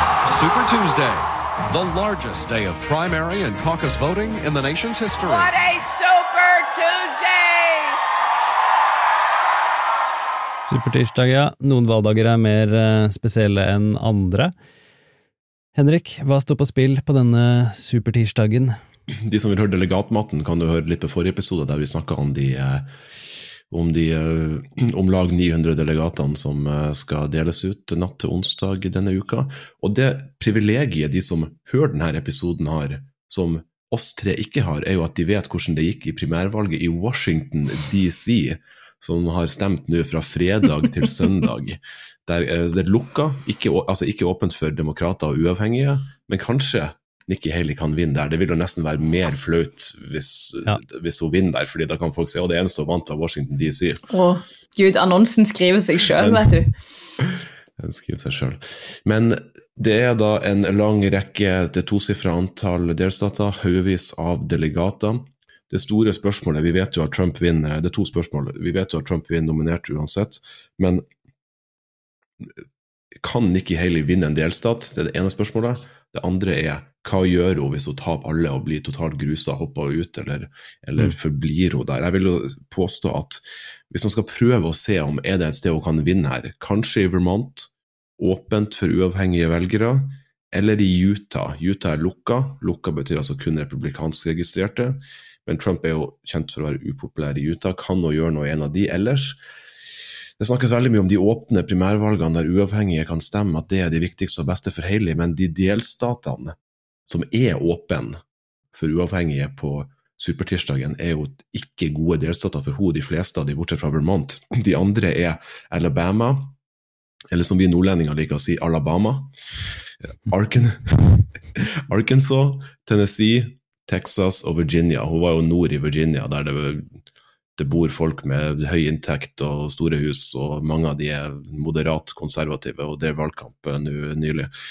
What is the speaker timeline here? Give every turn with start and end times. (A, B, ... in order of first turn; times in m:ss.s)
0:00.2-0:05.5 A
0:05.2-0:08.0 B
0:10.6-0:14.5 C
0:15.7-0:18.7 C
0:19.1-0:22.9 D
0:23.7-0:54.0 D
0:54.1-0:56.7 E
0:56.2-0:56.6 D
0:57.8-1:11.0 D
1:13.2-1:39.4 D
1:40.4-1:48.2 D
1:48.7-1:56.6 D
1:57.3-2:07.0 D
2:07.6-2:14.5 D